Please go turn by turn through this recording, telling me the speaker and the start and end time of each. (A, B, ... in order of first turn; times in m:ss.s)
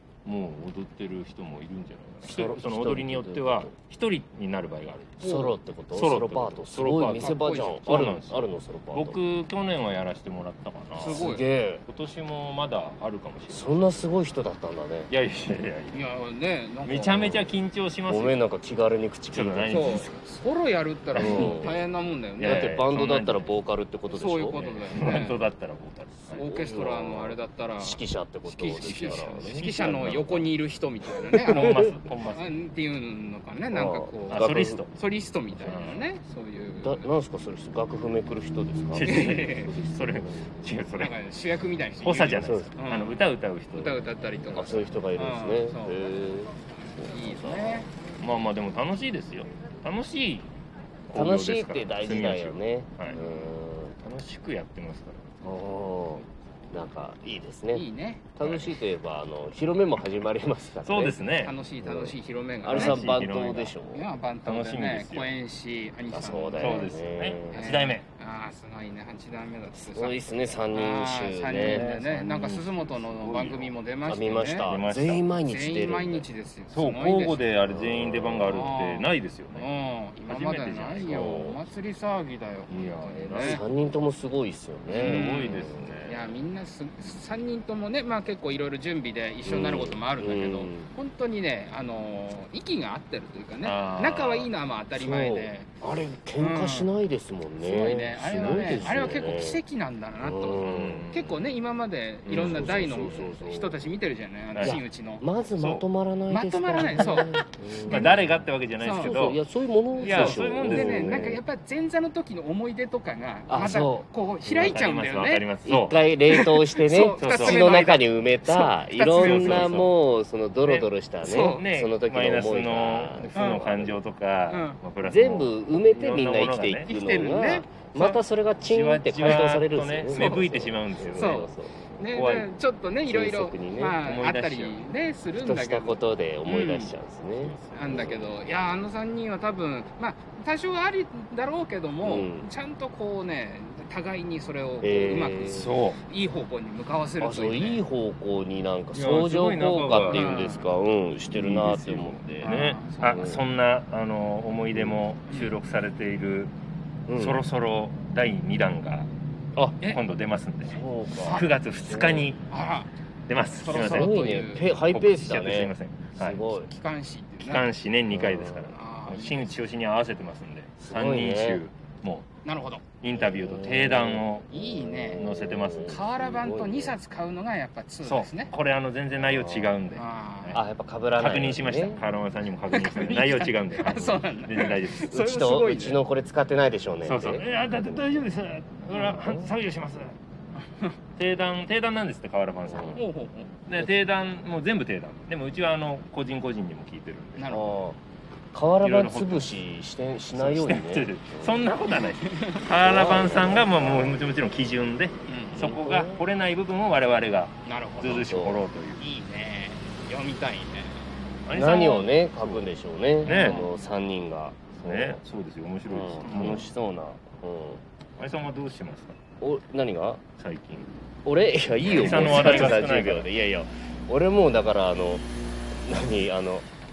0:00.2-0:11.3 A
0:02.2-0:03.7 B
0:05.2-0:09.2 B
0:07.2-0:07.8 C
0:10.9-0:11.4 C
0:11.1-0:11.8 B
0:11.8-0:14.1 A
0:13.5-0:15.1 B
0:15.1-0:16.0 A
0:15.9-0:17.3 C
0:16.8-0:18.4 A
0:17.2-0:17.5 B
0:18.1-0:20.1 B
0:19.3-0:20.1 A
0:19.7-0:22.8 C
0:21.1-0:21.8 A
0:21.1-0:21.8 B
0:22.4-0:23.6 A
0:22.4-0:24.7 B
0:24.1-0:25.4 C
0:24.6-0:26.4 A
0:26.2-0:30.1 B
0:26.3-0:37.1 C
0:28.8-0:30.5 A
0:31.3-0:32.6 A
0:31.3-0:31.8 B
0:33.7-0:34.8 B
0:34.3-0:34.9 A
0:35.6-0:36.1 A
0:36.8-0:40.6 B
0:38.9-0:41.2 A
0:39.0-0:39.7 C
0:40.9-0:46.0 C
0:42.0-0:44.0 A
0:42.3-0:42.7 B
0:44.5-0:47.8 B
0:47.0-0:47.9 C
0:48.1-0:50.5 A
0:51.1-0:53.2 A
0:51.1-0:54.0 B
0:53.1-0:53.4 C
0:54.0-0:55.5 A
0:55.4-1:01.2 B
0:57.7-0:58.3 C
0:58.4-0:58.8 A
1:00.8-1:01.5 A
1:01.3-1:03.0 C
1:01.8-1:04.1 B
1:02.6-1:03.8 A
1:03.9-1:07.0 C
1:04.4-1:05.3 A
1:06.1-1:07.7 B
1:06.6-1:08.0 A
1:07.5-1:14.7 C
1:09.7-1:11.9 B
1:11.6-1:13.7 A
1:14.0-1:16.2 B
1:14.6-1:15.3 A
1:15.4-1:17.4 C
1:16.7-1:19.7 A
1:17.6-1:18.7 B
1:18.5-1:23.6 C
1:20.3-1:21.4 A
1:21.0-1:21.6 B
1:22.7-1:23.6 A
1:23.4-1:26.0 B
1:24.9-1:35.7 C
1:24.9-1:26.3 A
1:29.4-1:30.9 B
1:33.6-1:34.5 A
1:35.0-1:39.6 B
1:36.4-1:36.9 C
1:37.6-1:45.2 C
1:38.2-1:39.3 A
1:40.2-1:41.1 B
1:40.6-1:41.5 A
1:42.2-1:42.8 A
1:42.3-1:43.8 B
1:44.5-1:44.8 A
1:44.6-1:48.4 B
1:45.6-1:45.8 A
1:46.3-1:48.2 C
1:47.9-1:49.4 A
1:48.8-1:49.3 C
1:48.9-1:51.4 B
1:49.9-1:55.5 C
1:50.0-1:51.3 A
1:53.5-1:54.8 B
1:54.5-1:56.0 A
1:55.6-2:04.0 B
1:56.3-1:59.8 C
1:57.2-1:57.7 A
1:59.1-1:59.9 A
2:00.6-2:06.9 A
2:01.2-2:01.7 C
2:03.3-2:03.6 C
2:04.5-2:04.8 C
2:05.0-2:12.0 B
2:06.8-2:08.2 C
2:08.6-2:11.5 A
2:10.1-2:10.5 C
2:11.1-2:16.9 C
2:12.1-2:12.5 A
2:13.0-2:14.0 B
2:14.0-2:14.8 A
2:15.3-2:18.4 B
2:17.4-2:18.3 A
2:17.7-2:27.8 C
2:22.0-2:22.5 B
2:24.8-2:25.7 B
2:25.5-2:26.0 A
2:27.2-2:33.4 B
2:28.9-2:30.5 A
2:30.1-2:30.6 C
2:31.3-2:36.5 A
2:32.4-2:33.3 C
2:34.7-2:35.0 B
2:35.3-2:35.5 C
2:37.1-2:37.4 B
2:37.2-2:39.1 A
2:39.5-2:39.8 B
2:39.8-2:42.4 A
2:40.6-2:42.3 B
2:41.2-2:41.5 C
2:42.5-2:42.9 C
2:43.3-2:46.4 A
2:43.5-2:44.7 C
2:43.7-2:46.7 B
2:46.5-2:47.7 C
2:47.4-2:52.3 A
2:48.1-2:48.7 B
2:48.7-2:49.6 C
2:50.8-2:51.6 B
2:52.4-2:52.8 C
2:53.0-2:54.5 A
2:53.1-2:57.0 B
2:54.5-2:58.5 C
2:55.2-2:56.0 A
2:58.0-3:00.6 A
2:59.2-2:59.8 B
2:59.9-3:00.6 C
3:00.5-3:02.0 B
3:01.2-3:05.1 A
3:02.7-3:06.0 C
3:03.9-3:04.2 B
3:05.1-3:07.5 B
3:07.0-3:10.2 A
3:08.9-3:09.5 B
3:11.2-3:13.0 A
3:12.7-3:13.0 B
3:12.9-3:13.6 C
3:13.7-3:17.4 A
3:17.4-3:17.7 C
3:17.5-3:18.0 B
3:18.5-3:21.6 B
3:18.8-3:19.6 A
3:20.3-3:29.0 A
3:21.9-3:22.6 C
3:22.8-3:24.2 B
3:25.3-3:25.6 C
3:25.6-3:26.2 B
3:27.6-3:28.2 C
3:28.0-3:28.6 B
3:29.0-3:31.1 C
3:31.4-3:32.7 A
3:31.5-3:35.2 B
3:33.2-3:33.7 A
3:33.2-3:33.7 C
3:34.8-3:36.7 A
3:35.9-3:37.8 B
3:38.2-3:39.2 A
3:39.4-3:40.2 B
3:40.4-3:40.9 A
3:41.2-3:46.6 B
3:41.8-3:43.3 A